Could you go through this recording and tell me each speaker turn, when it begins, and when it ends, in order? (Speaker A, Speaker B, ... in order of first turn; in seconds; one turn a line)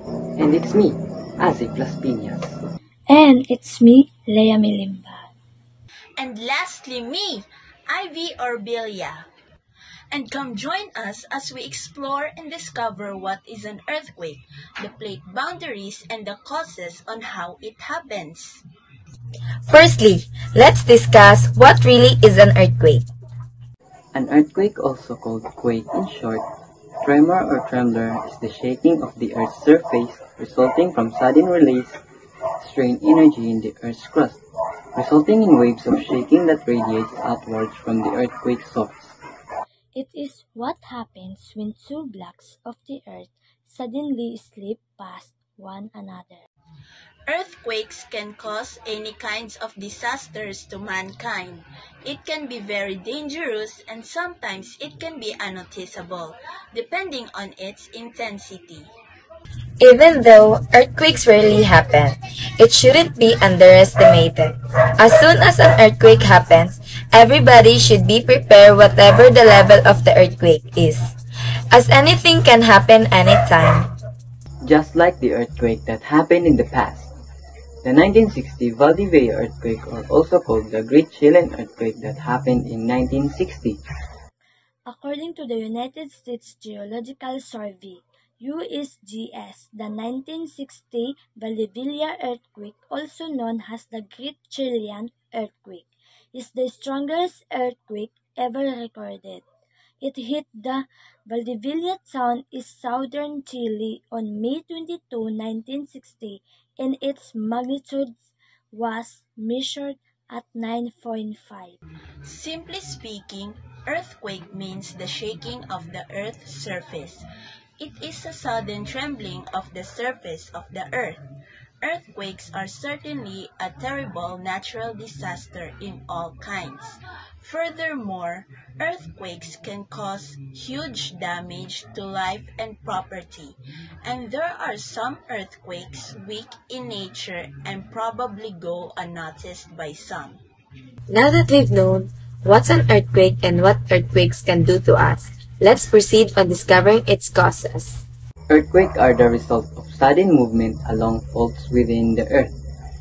Speaker A: 0.3-2.6
Speaker B: 3.1-5.3
Speaker C: 6.2-9.3
Speaker C: 10.1-18.6
Speaker D: 19.7-23.1
Speaker A: 24.1-26.4
Speaker A: 27.0-32.0
Speaker A: 32.6-34.4
Speaker A: 34.9-39.2
Speaker B: 39.9-46.4
Speaker C: 47.3-58.9
Speaker D: 59.8-71.1
Speaker D: 71.7-73.9
Speaker A: 74.6-77.1
Speaker A: 77.8-83.8
Speaker B: 84.8-99.4
Speaker B: 100.0-111.8
Speaker C: 112.2-117.2
Speaker C: 117.8-121.2
Speaker C: 121.8-140.4
Speaker D: 141.1-148.0
Speaker A: 148.5-152.5